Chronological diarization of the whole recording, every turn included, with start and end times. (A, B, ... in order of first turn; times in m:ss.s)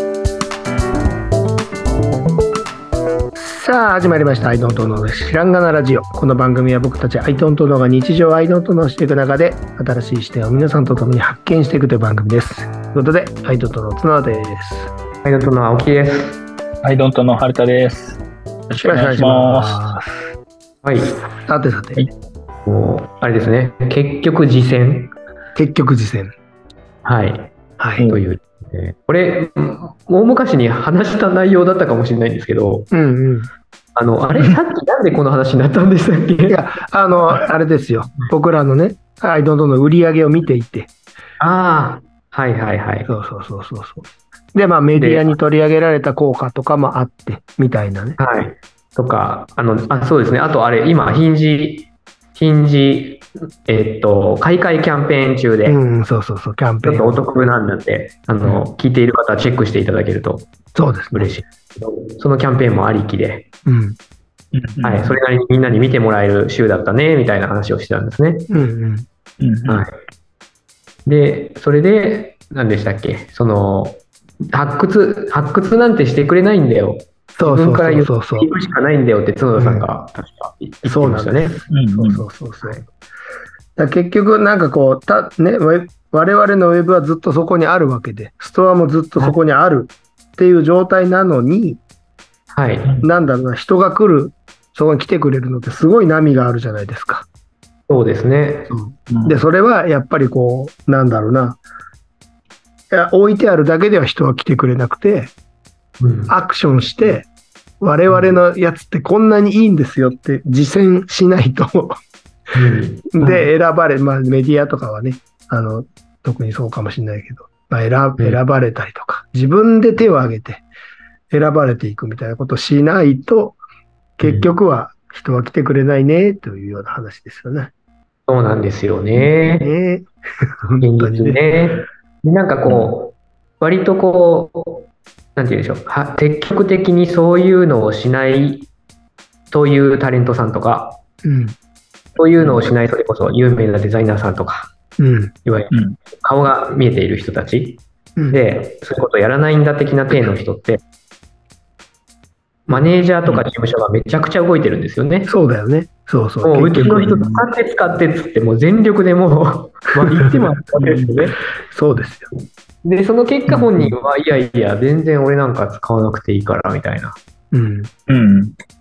0:03.4-0:14.9 A
0:15.2-0:16.4 B
0:16.8-0:20.1 C
0:18.8-0:20.0 A
0:20.8-0:21.2 B
0:21.4-0:22.0 A
0:22.7-0:25.1 B
0:25.6-0:26.3 A
0:27.0-0:32.9 B
0:27.8-0:28.1 A
0:32.9-0:33.5 A
0:34.0-0:36.6 B
0:36.5-0:40.9 A
0:41.4-0:43.1 B
0:43.1-0:48.2 A
0:45.0-0:45.3 B
0:48.2-0:55.8 B
0:55.7-0:57.2 A
0:56.8-1:00.5 B
1:00.8-1:01.4 A
1:01.1-1:03.4 B
1:03.6-1:04.0 A
1:04.5-1:05.2 C
1:04.8-1:08.5 B
1:08.5-1:09.1 A
1:09.4-1:09.8 C
1:09.7-1:09.9 B
1:11.1-1:21.6 B
1:17.4-1:18.5 A
1:19.6-1:19.9 A
1:20.8-1:22.8 A
1:21.7-1:22.2 C
1:23.8-1:31.8 A
1:32.5-1:32.9 B
1:33.0-1:37.3 A
1:37.9-1:38.7 B
1:38.7-1:41.6 A
1:39.1-1:39.4 C
1:42.9-1:45.3 A
1:46.0-1:46.4 B
1:46.3-1:47.3 A
1:47.8-1:52.0 A
1:48.1-1:48.4 B
1:52.5-1:53.4 B
1:53.1-2:00.6 A
2:01.3-2:03.6 A
2:04.2-2:07.7 A
2:04.2-2:04.5 B
2:08.3-2:09.7 B
2:09.5-2:10.1 A
2:10.7-2:11.4 A
2:10.8-2:18.7 B
2:12.7-2:12.9 C
2:19.5-2:21.0 B
2:21.2-2:21.6 A
2:22.2-2:24.7 B
2:22.4-2:22.7 C
2:25.0-2:25.3 A
2:25.4-2:30.8 B
2:25.7-2:26.0 C
2:32.7-2:35.3 B
2:35.3-2:37.2 A
2:36.4-2:41.4 B
2:36.8-2:37.4 C
2:40.8-2:41.1 C
2:41.7-2:42.3 A
2:42.8-2:47.2 B
2:43.5-2:43.9 A
2:47.5-2:47.9 A
2:48.1-2:48.6 C